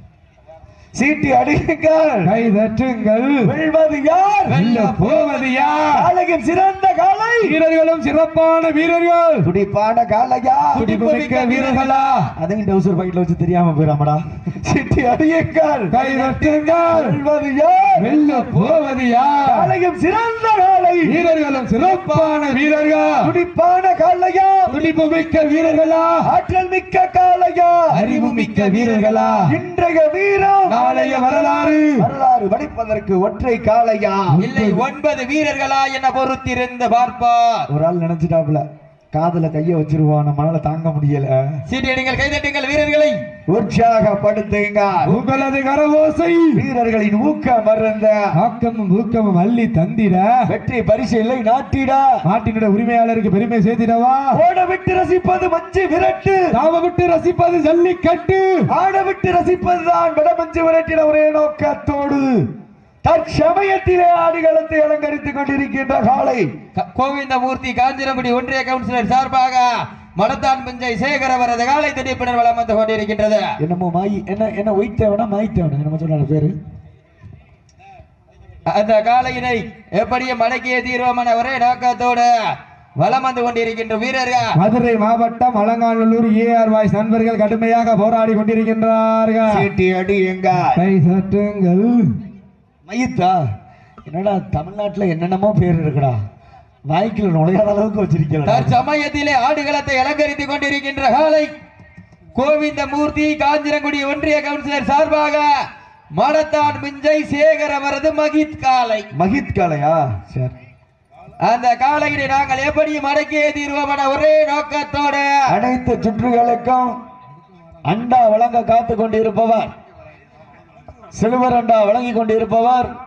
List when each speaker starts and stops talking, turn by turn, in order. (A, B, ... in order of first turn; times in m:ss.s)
0:01.0-0:02.3 A
0:02.2-0:03.4 B
0:03.4-0:04.6 A
0:04.5-0:05.6 C
0:04.5-0:06.0 B
0:05.9-0:07.5 A
0:07.4-0:09.4 B
0:09.4-0:10.8 A
0:10.8-0:12.1 C
0:10.8-0:12.3 B
0:12.4-0:15.9 A
0:15.9-0:17.1 B
0:16.0-0:16.7 C
0:16.8-0:18.1 A
0:18.0-0:19.7 B
0:19.4-0:21.1 A
0:21.1-0:23.3 B
0:21.8-0:22.4 C
0:23.2-0:24.7 A
0:24.7-0:25.0 C
0:24.7-0:26.2 B
0:26.2-0:27.9 A
0:27.9-0:29.5 C
0:27.9-0:29.5 B
0:29.5-0:34.3 A
0:30.7-0:31.5 C
0:30.7-0:32.0 B
0:34.3-0:34.8 B
0:34.4-0:37.6 C
0:37.7-0:41.4 A
0:41.7-0:43.2 C
0:43.5-0:45.1 A
0:45.1-0:46.6 B
0:46.6-0:48.2 A
0:48.4-0:50.3 B
0:50.5-0:52.0 A
0:52.2-0:54.3 B
0:54.3-0:56.4 A
0:56.5-0:58.6 B
0:58.7-1:02.4 A
1:03.0-1:06.5 A
1:06.8-1:13.4 C
1:13.6-1:16.5 A
1:18.7-1:22.3 C
1:23.0-1:24.5 C
1:24.6-1:29.6 B
1:29.5-1:30.8 A
1:30.7-1:32.1 B
1:32.9-1:33.4 A
1:34.1-1:36.2 A
1:36.9-1:38.7 A
1:38.4-1:41.5 C
1:42.4-1:45.5 C
1:46.2-1:49.0 C
1:49.1-1:50.5 A
1:51.4-1:55.3 C
1:55.5-1:56.9 A
1:57.9-1:59.7 A
2:01.1-2:02.9 A